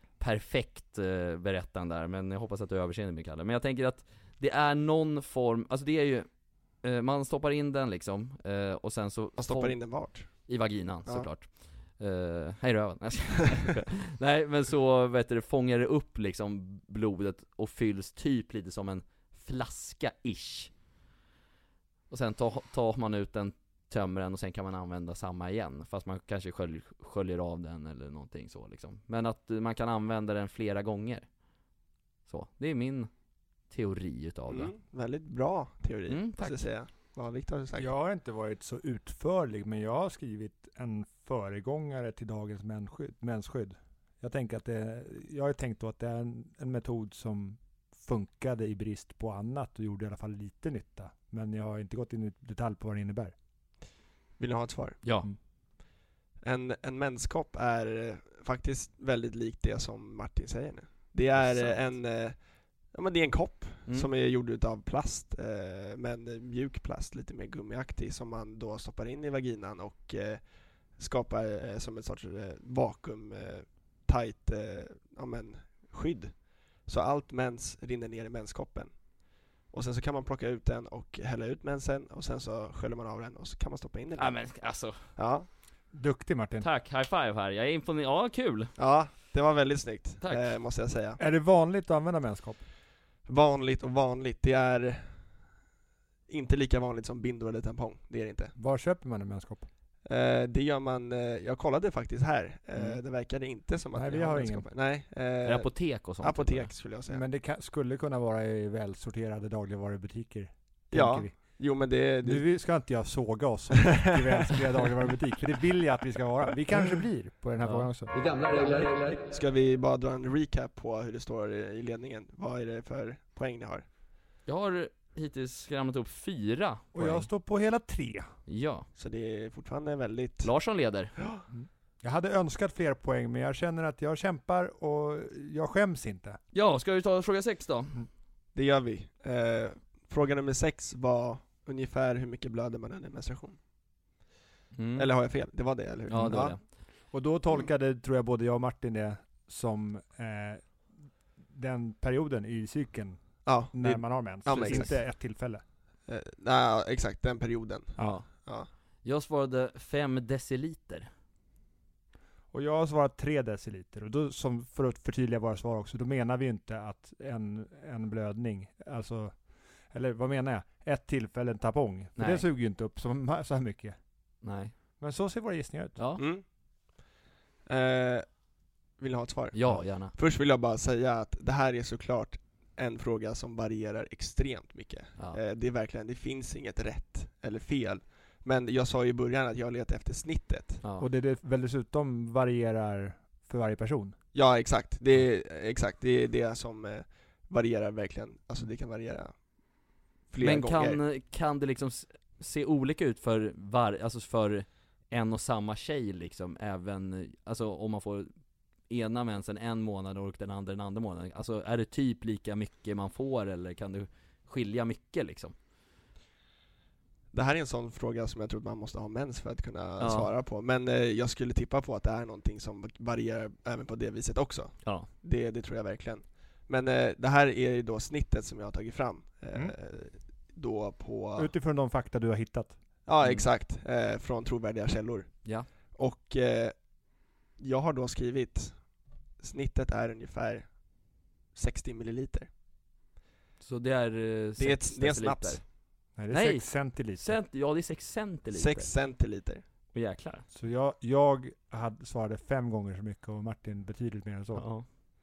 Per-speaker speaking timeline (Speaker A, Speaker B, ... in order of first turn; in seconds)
Speaker A: 0.2-20.7, 22.1-31.3, 32.3-33.1, 33.7-34.7, 36.1-36.6, 55.0-55.3, 61.4-61.9, 84.2-85.0, 86.6-88.7, 90.2-90.5, 105.4-106.7, 117.6-117.9, 124.5-127.3, 128.5-128.9, 130.4-131.1, 136.5-138.0, 144.7-145.1, 146.1-146.6, 154.6-154.9, 158.0-158.2, 159.0-161.1, 172.2-172.4, 174.4-174.7, 176.0-176.2, 179.5-180.1, 200.4-208.3, 208.9-215.5, 220.0-220.3, 243.6-245.6, 246.3-248.9, 249.9-250.4, 254.6-254.8
Speaker B: 9.4-10.5, 34.5-37.9, 54.4-55.0, 56.4-78.9, 79.7-84.4, 85.2-85.5, 88.8-91.2, 93.3-95.1, 96.3-98.5, 100.0-107.2, 110.9-112.4, 119.3-123.8, 128.9-130.5, 131.2-131.4, 138.5-143.6, 144.9-146.6, 153.4-155.0, 156.1-158.7, 176.2-176.4, 177.7-178.4, 179.0-190.8, 194.3-199.3, 200.3-201.0, 217.3-231.5, 233.1-236.8, 237.6-238.8, 239.4-240.7, 241.5-242.5, 244.6-245.6, 248.5-249.6
Speaker C: 37.8-53.3, 85.9-86.7, 91.2-92.6, 98.5-99.7, 103.9-104.7, 107.1-111.6, 112.2-118.1, 126.9-128.3, 131.5-136.4, 147.1-155.6, 158.0-158.2, 162.5-174.0, 175.0-176.0, 191.0-194.2, 231.3-232.8, 246.2-247.3, 250.5-254.7